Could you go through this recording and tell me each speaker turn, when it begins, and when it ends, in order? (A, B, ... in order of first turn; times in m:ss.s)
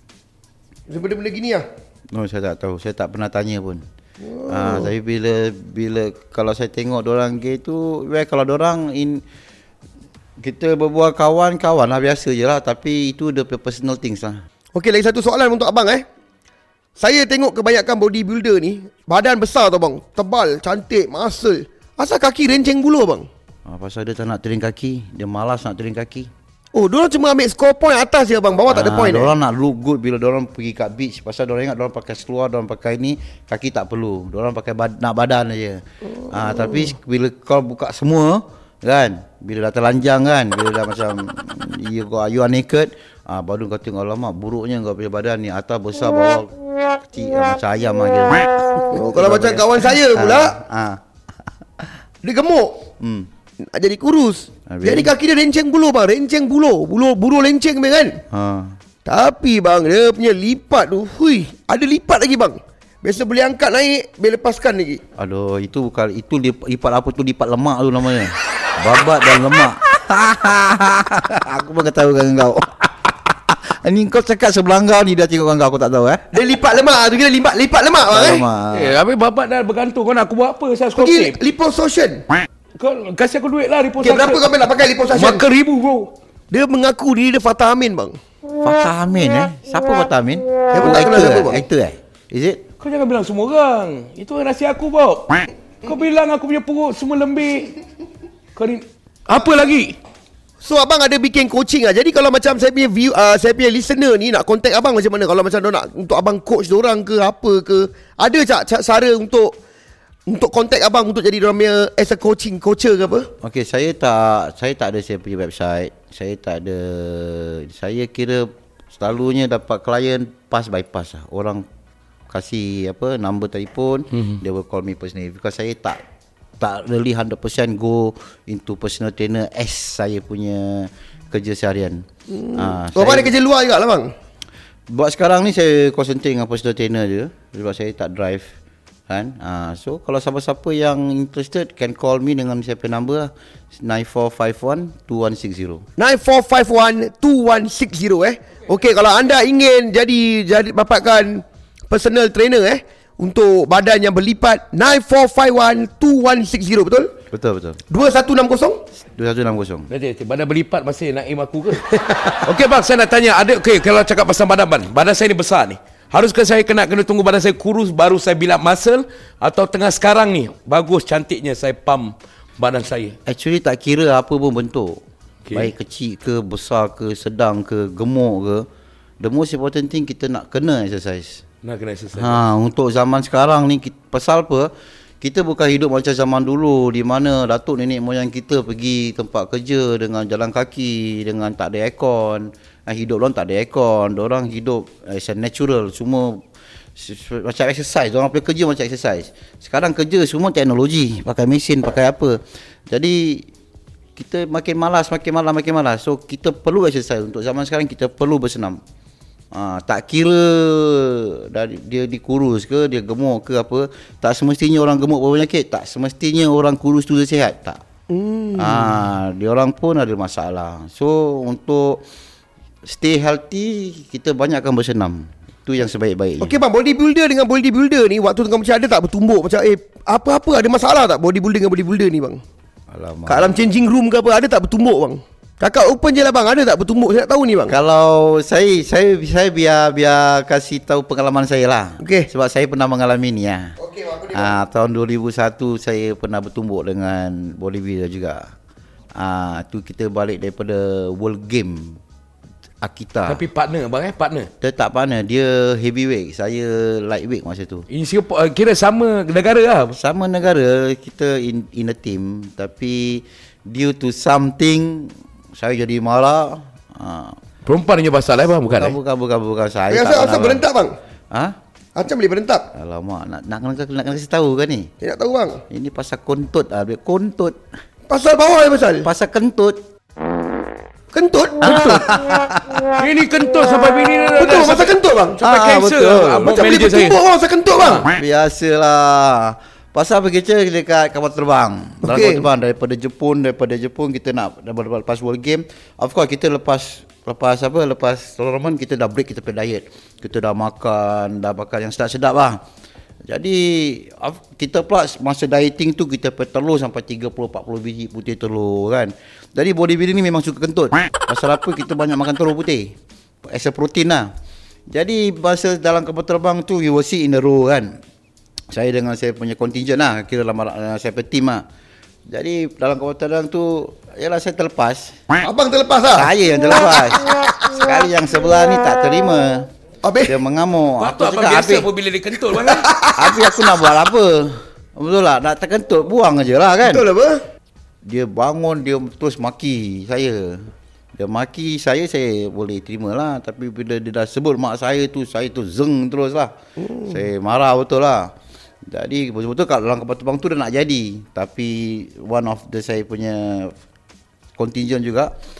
0:00.9-0:01.6 A
0:02.1-0:03.8 B
0:04.2-0:04.9 A
0:04.5-0:09.2 B
0:10.4-0:14.4 B
0:14.7-0:16.0 A
0:17.0-0:23.3 A
0:23.7-0:26.3 B
0:26.7-0:29.3 A
0:28.7-0:46.5 B
0:36.2-0:36.9 A
0:47.1-0:51.0 B
0:48.9-0:50.5 A
0:52.2-0:52.8 A
0:53.0-0:53.3 B
0:53.7-0:58.2 A
0:54.7-0:55.1 B
0:58.3-0:58.8 B
0:59.0-1:05.0 A
1:05.2-1:16.3 B
1:16.3-1:18.4 A
1:18.1-1:19.0 B
1:18.7-1:21.4 C
1:21.0-1:22.2 A
1:22.8-1:24.6 C
1:24.0-1:25.4 A
1:25.1-1:26.1 C
1:26.5-1:28.2 A
1:28.6-1:32.6 B
1:30.7-1:31.6 A
1:32.8-1:37.7 C
1:38.6-1:39.9 C
1:40.6-1:49.5 A
1:50.3-1:53.3 A
1:53.4-2:01.6 B
2:02.3-2:06.0 B
2:04.1-2:04.4 C
2:06.6-2:13.3 B
2:12.3-2:14.1 A
2:14.9-2:18.5 B
2:19.1-2:25.8 B
2:26.0-2:37.1 A
2:37.3-2:37.8 B
2:37.9-2:38.8 A
2:39.1-2:39.9 B
2:39.9-2:53.2 C
2:53.2-2:55.0 B
2:55.4-2:55.7 C
2:55.5-2:58.7 B
2:59.2-3:01.4 B
3:01.6-3:02.4 C
3:02.1-3:16.4 B
3:17.0-3:23.5 B
3:24.2-3:28.8 B
3:29.5-3:37.8 B
3:38.1-3:39.0 A
3:38.6-3:42.0 B
3:42.8-3:46.6 B
3:46.4-3:52.4 A
3:52.9-3:53.6 B
3:53.2-3:57.7 A
3:57.7-4:03.7 B
4:02.0-4:02.3 A
4:03.8-4:04.5 A
4:04.3-4:08.5 B
4:09.1-4:12.0 B
4:12.8-4:13.4 B
4:13.3-4:14.5 C
4:14.6-4:17.8 B
4:17.9-4:20.0 C
4:19.9-4:27.4 B
4:27.6-4:29.0 C
4:28.7-4:30.6 B
4:29.9-4:30.9 A
4:32.0-4:32.6 A
4:32.7-4:34.9 B
4:35.0-4:35.6 A
4:35.7-4:37.6 B
4:38.1-4:39.1 A
4:39.0-4:39.8 B
4:41.1-4:42.0 A
4:41.6-4:42.8 B
4:43.0-4:47.2 C
4:44.4-4:45.4 A
4:45.4-4:46.7 B
4:46.5-4:48.0 A
4:47.8-4:48.1 C
4:48.1-5:02.6 B
4:52.0-4:52.4 A
5:03.3-5:12.9 B
5:13.4-5:14.3 B
5:14.9-5:17.9 B
5:18.7-5:21.6 B
5:22.3-5:25.2 B
5:25.4-5:26.3 A
5:26.1-5:29.7 B
5:27.0-5:27.3 A
5:30.0-5:30.4 A
5:30.2-5:31.9 B
5:31.0-5:32.9 C
5:32.5-5:33.6 A
5:33.1-5:37.1 B
5:36.8-5:37.4 A
5:38.0-5:46.5 B
5:46.8-5:47.1 A
5:47.0-5:48.3 B
5:48.9-5:53.7 B
5:54.6-5:55.3 B